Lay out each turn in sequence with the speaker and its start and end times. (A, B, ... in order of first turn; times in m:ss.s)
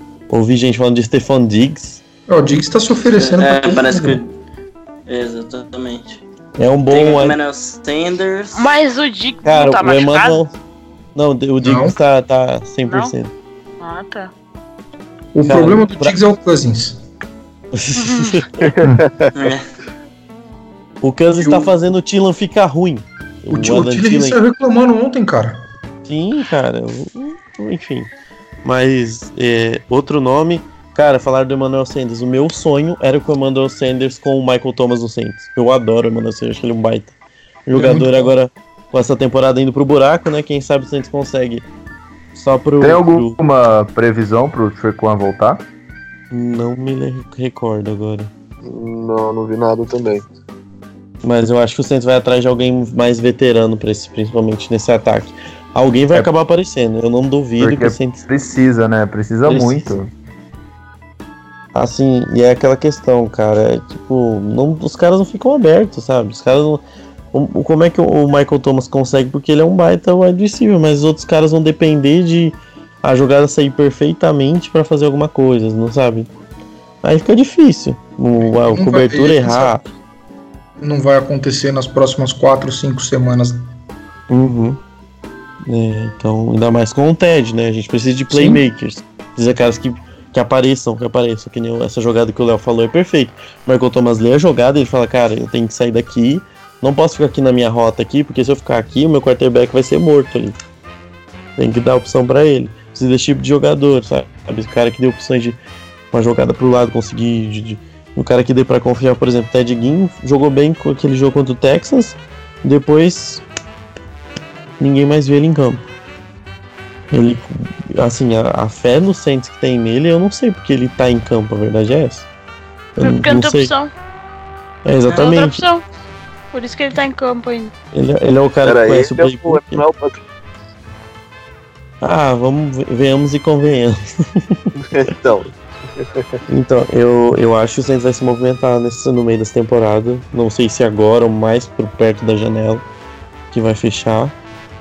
0:00.3-0:02.0 A
0:02.3-0:04.2 B
0:03.2-0:04.3 C
0:05.1-0:06.2 C
0:06.6-0:07.4 A
0:06.9-0:08.7 C
0:08.5-0:10.4 D
0:09.4-0:10.5 A
0:11.1-0:13.3 A
0:11.6-0:12.0 B
0:12.9-0:13.1 D
0:13.8-0:14.3 D
0:15.3-0:17.0 B
0:15.4-0:16.2 A
0:17.7-0:18.5 A
0:18.0-0:18.3 D
0:18.6-0:19.3 E
0:19.3-0:19.6 C
0:21.0-0:24.4 A
0:21.4-0:21.7 B
0:23.5-0:25.6 B
0:26.0-0:28.1 A
0:28.6-0:37.1 A
0:37.6-0:41.6 A
0:37.7-0:38.3 B
0:42.3-0:43.4 A
0:42.8-0:45.6 F
0:46.3-0:48.3 A
0:48.6-0:50.2 E
0:51.2-0:58.2 A
0:57.6-1:00.0 F
0:59.4-1:00.0 A
1:01.7-1:06.8 A
1:07.3-1:16.3 A
1:17.0-1:19.8 A
1:18.4-1:19.8 B
1:20.8-1:23.6 B
1:24.3-1:24.8 A
1:25.7-1:40.6 A
1:28.3-1:28.6 B
1:41.6-1:45.6 A
1:46.1-1:53.4 A
1:54.8-1:55.8 A
1:57.1-2:02.3 A
2:03.0-2:03.7 A
2:03.0-2:03.9 D
2:04.8-2:05.6 A
2:05.1-2:05.8 D
2:06.5-2:07.7 D
2:07.9-2:09.8 A
2:08.6-2:10.2 E
2:12.0-2:14.7 A
2:14.8-2:16.2 E
2:16.5-2:22.8 A
2:23.5-2:24.3 A